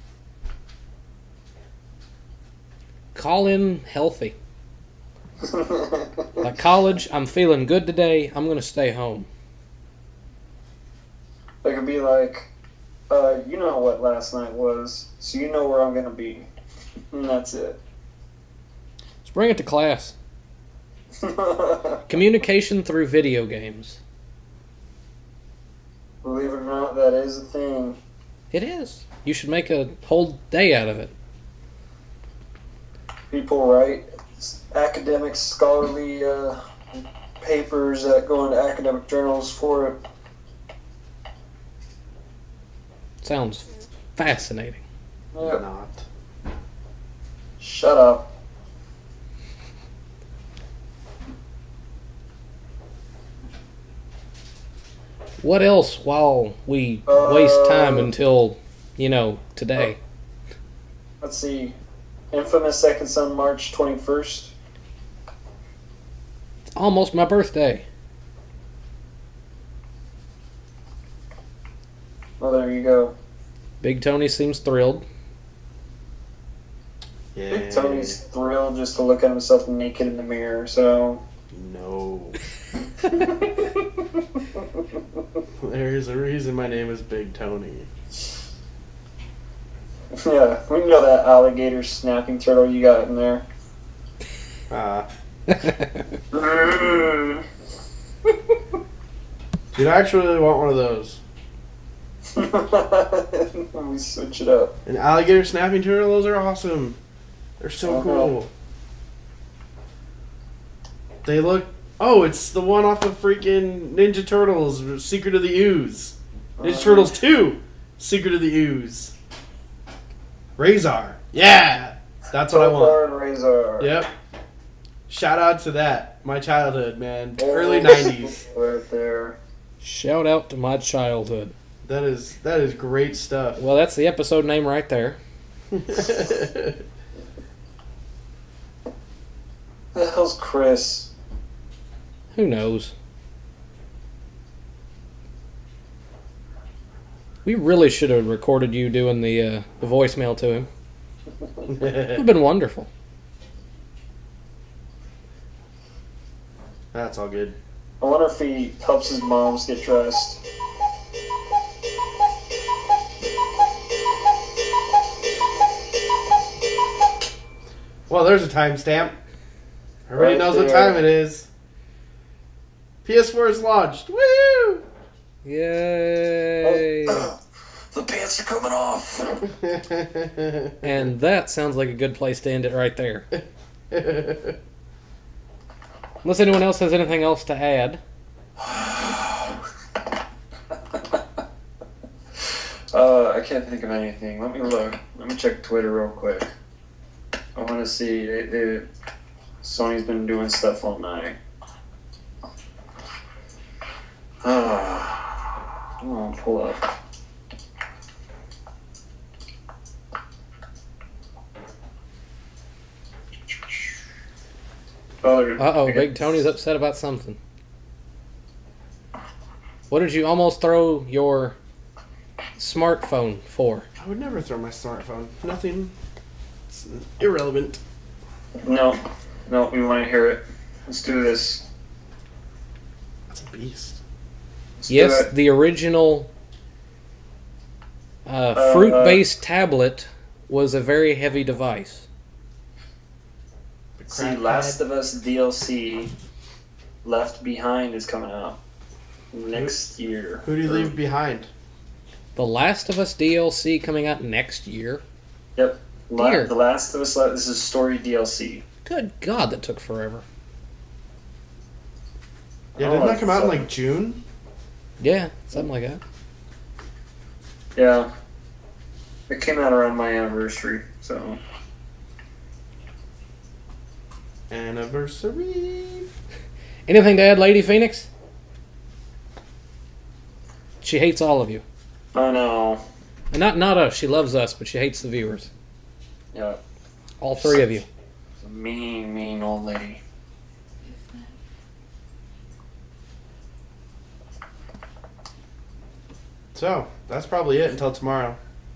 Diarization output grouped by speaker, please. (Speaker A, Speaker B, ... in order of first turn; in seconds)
Speaker A: 3.1-4.3, 6.4-9.3, 19.2-20.1, 22.1-24.0, 28.5-31.1, 43.2-44.8, 55.4-60.0, 66.7-67.8, 73.8-75.0, 95.5-96.0, 129.8-131.5, 133.6-135.2, 142.3-142.9, 147.4-150.7, 152.2-152.9, 175.4-177.3, 180.8-183.3, 186.2-188.0, 215.6-217.4, 219.9-221.6, 222.6-223.9, 234.9-236.3, 238.3-242.1, 252.4-255.0, 256.2-256.5, 258.9-260.2, 265.0-266.0, 276.9-278.1, 280.8-281.6, 283.3-285.5, 287.2-287.9
Speaker B: 5.4-6.5, 11.6-12.5, 13.1-16.5, 17.1-17.8, 21.2-22.0, 26.2-28.0, 33.3-36.6, 37.4-40.0, 45.3-45.6, 47.6-48.3, 57.1-58.1, 61.2-61.8, 62.3-64.5, 72.4-73.2, 77.5-81.2, 83.2-83.8, 84.5-84.8, 90.1-93.5, 96.3-97.4, 102.3-104.7, 107.8-108.3, 116.6-117.2, 122.5-124.0, 127.4-129.4, 139.9-141.1, 158.0-160.4, 170.2-171.1, 176.6-177.4, 177.9-179.5, 188.6-189.6, 192.9-196.5, 197.6-198.9, 199.6-201.4, 204.4-205.4, 206.0-206.9, 215.2-216.4, 228.7-231.7, 234.8-235.3, 238.5-239.3, 244.1-246.1, 247.0-248.6, 249.3-250.9, 255.6-258.6, 262.8-263.7, 267.8-268.1, 269.3-271.4, 282.1-282.8, 286.3-286.6, 287.4-287.7, 288.4-290.0
Speaker C: 45.4-46.1, 77.3-78.2, 81.5-82.4, 85.6-87.9, 94.7-95.1, 99.7-101.2, 104.9-107.0, 107.6-108.5, 111.2-119.1, 120.6-123.0, 123.8-124.1, 125.1-128.4, 131.8-133.6, 135.7-136.8, 151.7-152.3, 156.9-157.6, 168.1-169.2, 170.1-171.5, 173.1-174.8, 179.6-180.9, 183.3-184.6, 224.0-225.9, 226.7-227.8, 233.3-234.0, 244.0-244.8, 250.4-251.5, 262.8-264.2, 274.5-276.1, 296.5-298.4